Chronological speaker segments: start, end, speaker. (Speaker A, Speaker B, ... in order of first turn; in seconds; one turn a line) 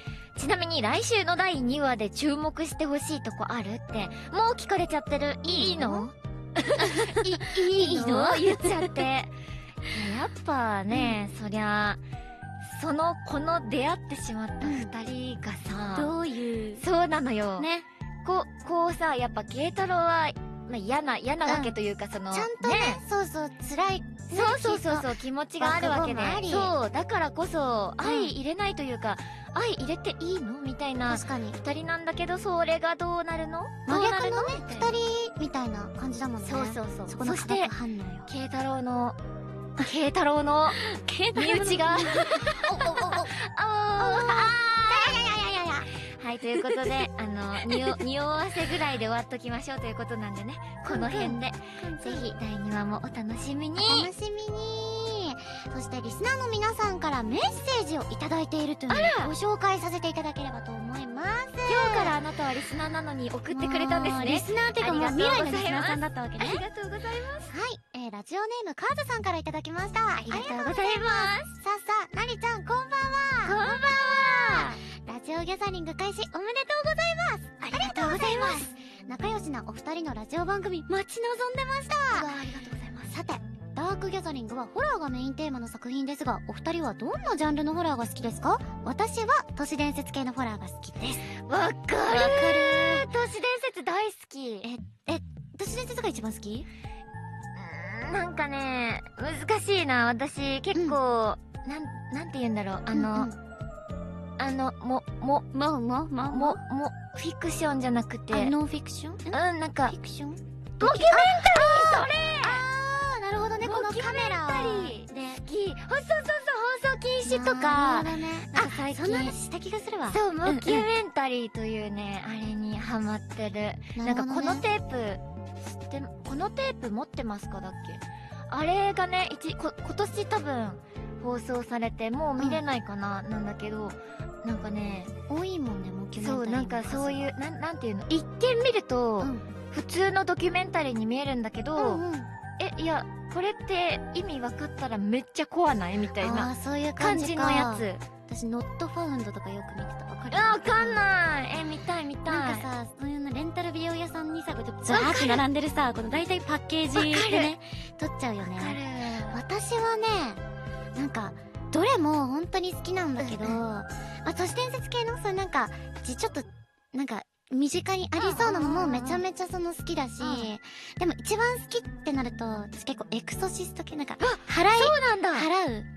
Speaker A: 0.4-9.3
Speaker B: 5.5-6.1
Speaker B: 6.8-9.1
Speaker A: 9.9-12.0
Speaker B: 10.9-11.2
Speaker A: 12.6-16.1
Speaker B: 14.6-14.9
Speaker B: 15.9-16.9
Speaker A: 16.8-17.7
Speaker B: 17.6-17.9
Speaker A: 18.2-23.0
Speaker B: 21.5-21.7
Speaker B: 22.3-26.7
Speaker A: 24.3-35.0
Speaker B: 28.0-28.3
Speaker B: 31.1-31.6
Speaker B: 33.9-38.3
Speaker A: 36.4-37.7
Speaker A: 38.3-39.2
Speaker A: 39.8-40.8
Speaker B: 40.8-43.4
Speaker A: 41.4-45.2
Speaker B: 44.0-45.9
Speaker A: 46.1-54.1
Speaker B: 47.6-48.0
Speaker B: 50.9-52.3
Speaker B: 53.8-62.2
Speaker A: 58.9-59.3
Speaker A: 61.7-67.5
Speaker B: 63.5-66.6
Speaker B: 67.5-82.3
Speaker A: 70.3-71.5
Speaker A: 73.4-74.8
Speaker A: 77.6-78.7
Speaker A: 82.1-83.1
Speaker B: 83.1-91.3
Speaker A: 91.4-94.7
Speaker B: 92.1-93.1
Speaker B: 94.6-96.7
Speaker A: 97.5-103.3
Speaker B: 102.9-103.4
Speaker A: 104.4-105.5
Speaker B: 105.5-106.6
Speaker A: 106.3-108.5
Speaker B: 108.3-115.4
Speaker A: 109.3-110.0
Speaker A: 110.8-112.7
Speaker A: 113.6-119.3
Speaker B: 117.2-120.9
Speaker A: 120.1-135.1
Speaker B: 124.0-124.7
Speaker B: 135.3-137.3
Speaker A: 136.2-142.0
Speaker B: 141.8-142.3
Speaker A: 142.6-148.0
Speaker B: 146.2-151.0
Speaker A: 150.3-152.7
Speaker B: 152.2-158.8
Speaker A: 154.9-155.4
Speaker A: 156.9-157.6
Speaker A: 158.4-159.4
Speaker B: 159.3-160.4
Speaker B: 161.0-175.9
Speaker A: 163.2-163.6
Speaker A: 168.2-169.2
Speaker A: 170.2-170.5
Speaker A: 174.2-175.5